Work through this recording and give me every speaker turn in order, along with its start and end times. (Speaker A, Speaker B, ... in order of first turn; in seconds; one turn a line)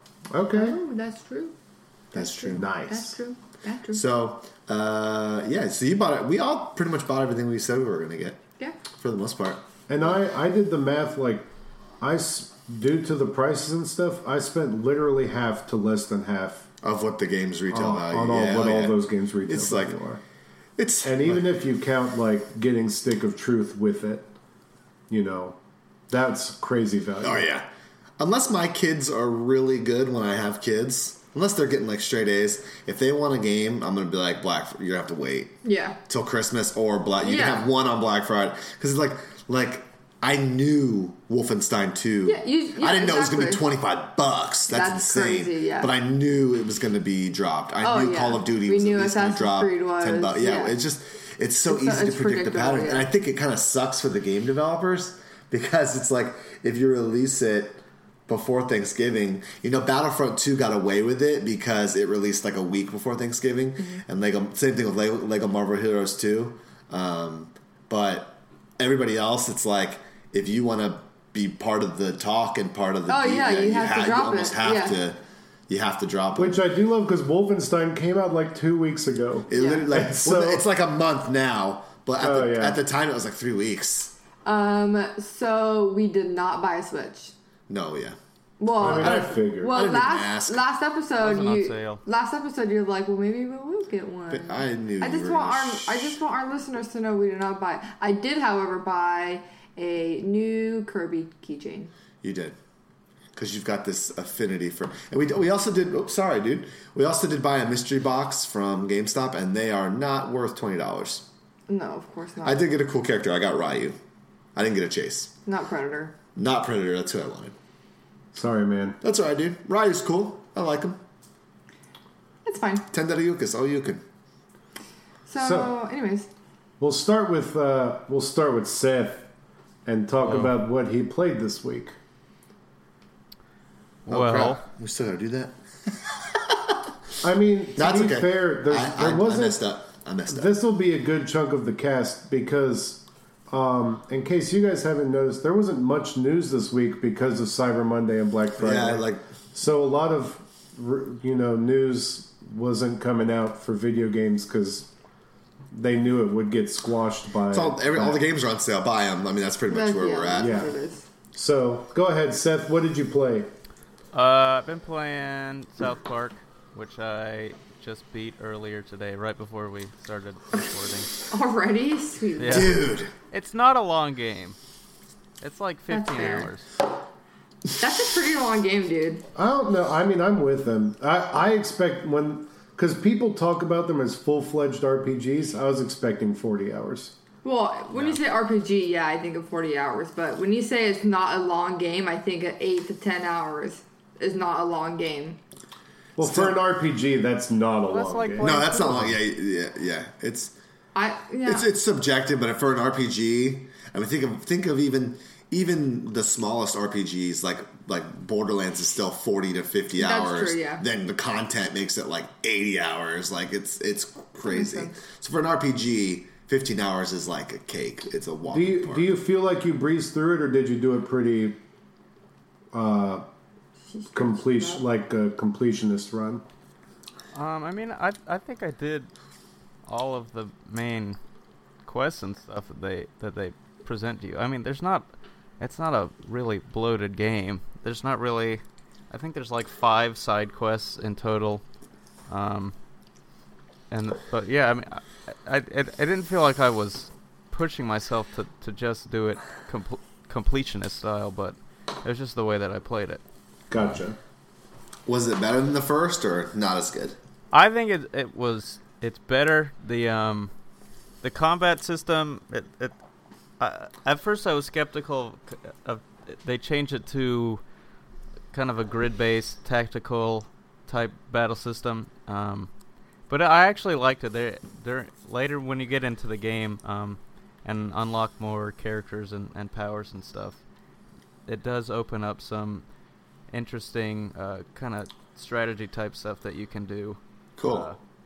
Speaker A: 0.3-0.8
Speaker B: 0.5-1.6
Speaker C: 2.1-2.7
Speaker B: 2.1-4.0
Speaker A: 2.5-3.1
Speaker C: 3.9-8.4
Speaker C: 8.9-10.1
Speaker A: 9.9-11.5
Speaker A: 12.0-16.7
Speaker C: 16.8-20.0
Speaker A: 17.7-20.2
Speaker C: 20.8-21.5
Speaker A: 21.0-24.3
Speaker A: 25.1-25.6
Speaker A: 26.1-27.5
Speaker C: 27.2-27.7
Speaker C: 28.2-35.6
Speaker B: 35.6-36.0
Speaker C: 36.1-76.6
Speaker B: 37.2-37.7
Speaker B: 42.3-43.6
Speaker B: 44.7-45.9
Speaker B: 47.8-50.8
Speaker B: 51.7-53.1
Speaker B: 63.8-64.0
Speaker B: 73.1-75.0
Speaker A: 76.4-80.7
Speaker C: 79.5-84.1
Speaker B: 79.5-79.9
Speaker A: 82.2-82.8
Speaker B: 84.5-87.3
Speaker C: 87.7-88.2
Speaker B: 88.6-101.9
Speaker A: 88.8-89.8
Speaker C: 88.8-90.6
Speaker D: 91.2-92.0
Speaker C: 94.3-96.2
Speaker C: 102.2-102.6
Speaker C: 103.3-111.3
Speaker B: 111.7-112.6
Speaker C: 112.4-114.0
Speaker C: 114.5-115.3
Speaker B: 115.5-116.1
Speaker C: 116.4-117.5
Speaker A: 118.3-119.0
Speaker C: 119.0-121.0
Speaker B: 122.5-122.9
Speaker C: 122.9-124.0
Speaker B: 125.3-126.3
Speaker A: 125.4-125.7
Speaker A: 126.8-129.3
Speaker A: 129.9-131.9
Speaker D: 130.2-130.5
Speaker D: 134.1-134.6
Speaker C: 134.1-136.9
Speaker A: 137.2-139.6
Speaker C: 137.8-140.5
Speaker A: 140.3-154.9
Speaker C: 148.6-149.3
Speaker A: 155.7-158.2
Speaker C: 157.5-160.7
Speaker B: 159.7-161.1
Speaker A: 160.3-160.7
Speaker A: 161.3-163.5
Speaker D: 164.1-171.1
Speaker B: 171.3-172.8
Speaker D: 172.4-172.8
Speaker C: 172.5-173.1
Speaker D: 173.3-174.6
Speaker D: 175.4-176.7
Speaker B: 175.9-176.5
Speaker B: 177.8-179.2
Speaker A: 179.4-187.2
Speaker B: 187.4-195.4
Speaker D: 187.9-188.2
Speaker A: 196.2-198.7
Speaker C: 196.2-196.6
Speaker D: 197.9-199.1
Speaker C: 198.4-200.5
Speaker B: 200.9-201.7
Speaker C: 201.4-219.1
Speaker B: 210.0-210.8
Speaker B: 214.5-214.9
Speaker A: 218.5-221.6
Speaker A: 222.7-223.2
Speaker B: 223.9-224.8
Speaker A: 224.1-226.4
Speaker D: 227.3-229.1
Speaker D: 229.9-231.2
Speaker D: 231.8-235.1
Speaker D: 235.6-241.6
Speaker D: 242.3-242.7
Speaker D: 243.9-253.2
Speaker A: 253.7-254.2
Speaker C: 255.1-257.2
Speaker D: 257.5-260.5
Speaker D: 261.2-262.9
Speaker D: 263.6-267.6
Speaker D: 268.5-272.7
Speaker D: 273.3-280.6
Speaker D: 281.5-282.8
Speaker D: 283.5-288.0
Speaker C: 287.6-287.9